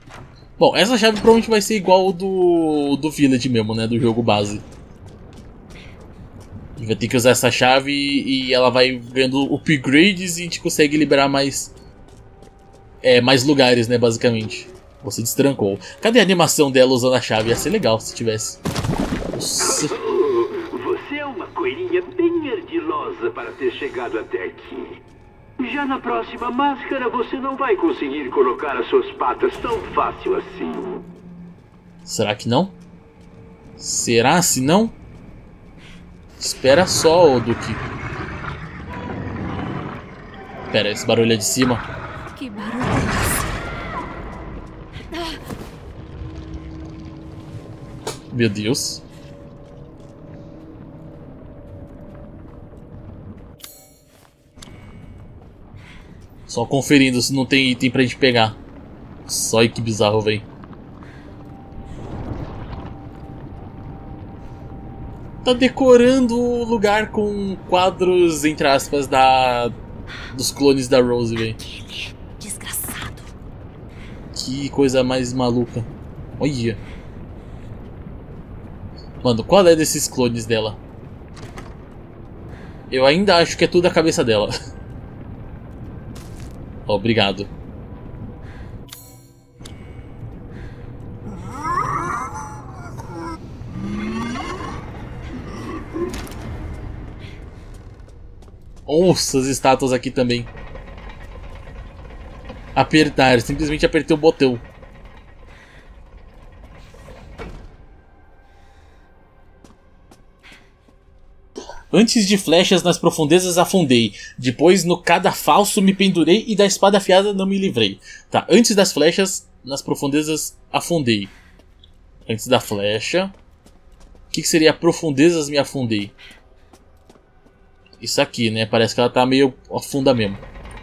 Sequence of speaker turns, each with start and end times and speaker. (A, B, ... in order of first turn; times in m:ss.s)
0:00.6-0:04.6 A
0:06.8-0:11.7 A
0:13.0-0:18.6 A
0:19.3-0:20.0 A
0:19.6-0:25.0 B
0:25.6-0:31.0 B
0:32.1-0:32.8 A
0:33.8-0:35.0 A
0:36.4-0:37.8 A
0:40.7-0:41.8 A
0:42.3-0:43.5 C
0:45.1-0:45.4 C
0:48.3-0:49.0 A
0:56.5-0:58.6 A
0:59.3-1:00.4 A
1:05.4-1:09.8 A
1:10.3-1:11.6 A
1:11.6-1:13.3 C
1:14.3-1:16.8 A
1:19.2-1:20.8 A
1:22.9-1:24.5 A
1:26.9-1:27.5 A
1:38.9-1:40.5 A
1:42.8-1:44.6 A
1:51.9-2:01.3 A
2:02.3-2:03.3 A
2:04.3-2:06.1 A
2:08.0-2:10.4 A